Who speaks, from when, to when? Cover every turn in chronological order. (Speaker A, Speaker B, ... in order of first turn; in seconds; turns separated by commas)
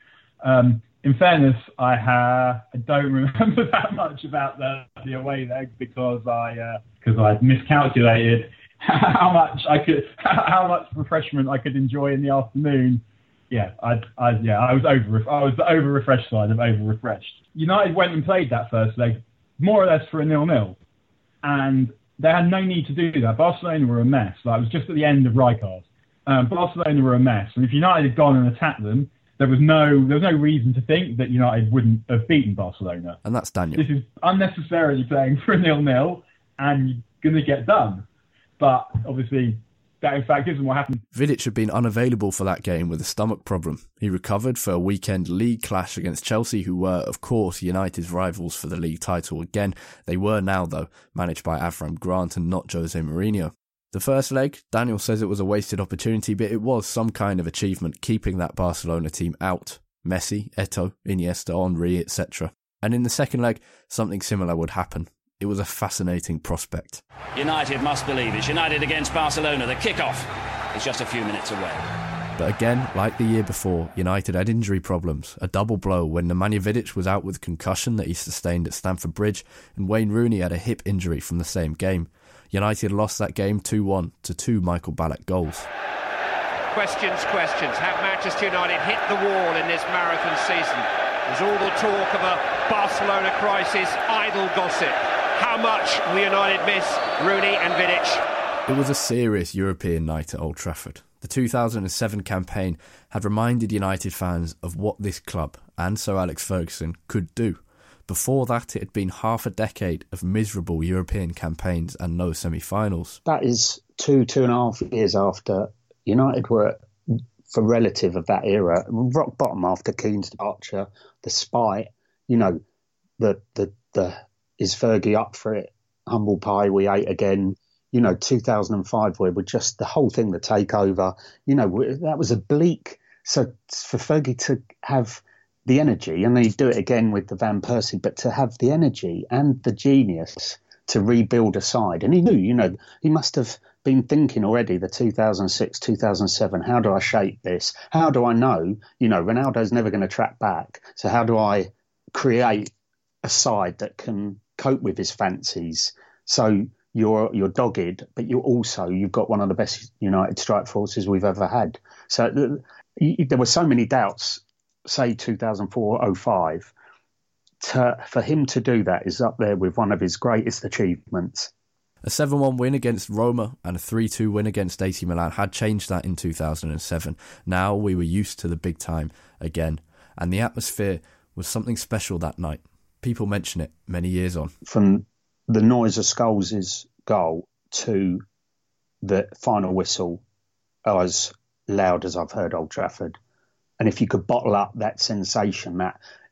Speaker A: 0.4-20.8, Speaker A: 21.4-33.2, Speaker B: 33.2-33.8, Speaker A: 33.8-38.1, Speaker A: 38.6-41.0, Speaker B: 41.1-67.0, Speaker C: 67.3-71.8, Speaker B: 72.4-85.7, Speaker D: 86.7-98.2, Speaker B: 98.7-113.2, Speaker E: 113.2-116.8, Speaker E: 117.5-122.6, Speaker E: 123.2-152.7, Speaker E: 153.2-166.7, Speaker E: 167.6-171.5, Speaker B: 172.0-184.5, Speaker E: 184.6-188.2, Speaker E: 189.0-190.2, Speaker E: 190.9-193.2, Speaker E: 193.8-196.0